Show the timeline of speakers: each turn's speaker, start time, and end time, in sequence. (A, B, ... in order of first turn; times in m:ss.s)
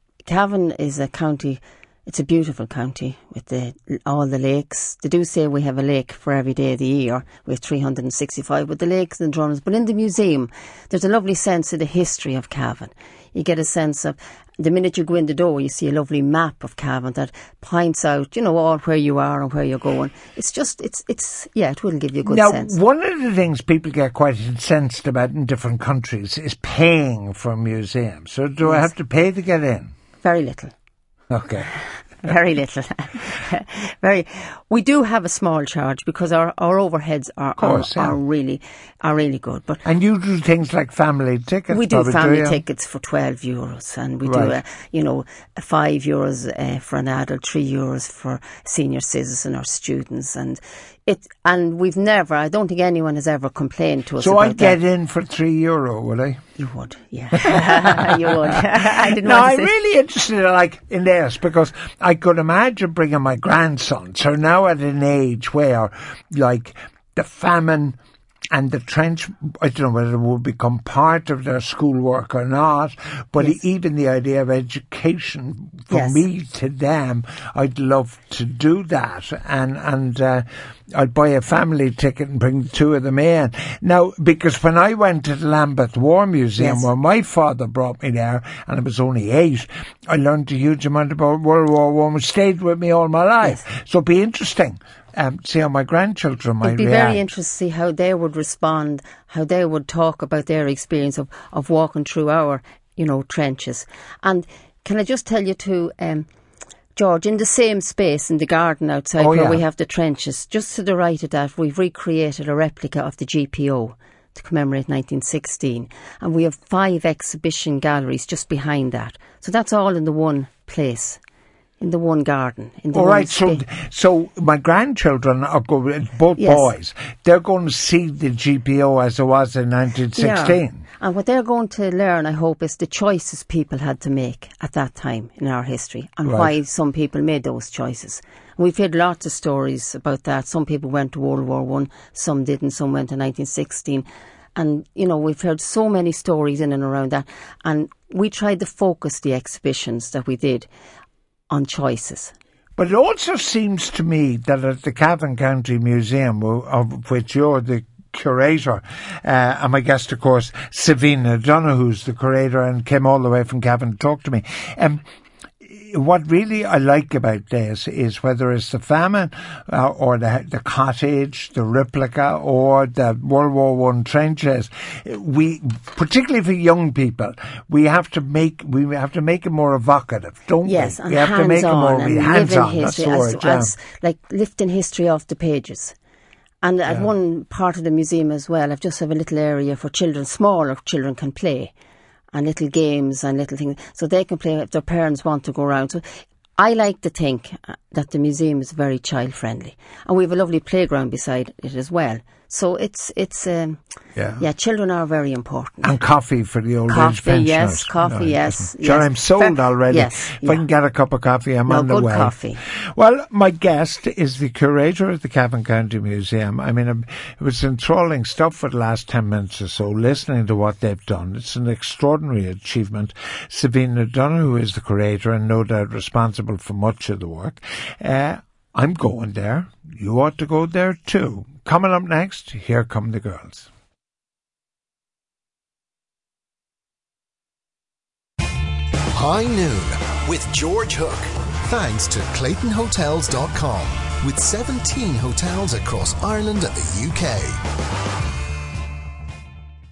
0:00.3-0:22.7 A
0:22.2-0:29.9 B
0:28.6-0:28.9 A
0:30.2-0:30.7 A
0:31.3-0:31.7 B
0:32.2-0:39.8 A
0:37.6-0:38.2 B
0:39.8-0:42.6 B
0:41.7-0:54.8 A
0:44.2-0:44.6 B
0:54.2-0:56.4 B
0:56.6-0:59.7 A
0:57.3-1:08.0 B
1:08.5-1:37.2 B
1:15.9-1:16.2 A
1:26.6-1:26.9 A
1:36.6-1:46.2 A
1:47.0-2:01.2 A
1:49.2-1:49.6 B
2:01.8-2:03.6 A
2:02.9-2:10.8 B
2:06.4-2:06.7 A
2:10.1-2:30.7 A
2:16.2-2:16.6 B
2:31.5-2:32.3 A
2:32.8-2:45.0 B
2:45.6-3:03.7 B
3:00.6-3:05.9 A
3:06.6-3:11.7 A
3:06.8-3:07.1 B
3:12.3-3:16.0 A
3:16.6-3:23.8 A
3:24.2-3:24.4 B
3:24.4-3:26.0 A
3:25.8-3:53.7 B
3:26.9-3:30.6 A
3:31.6-3:32.6 A
3:59.1-4:07.6 C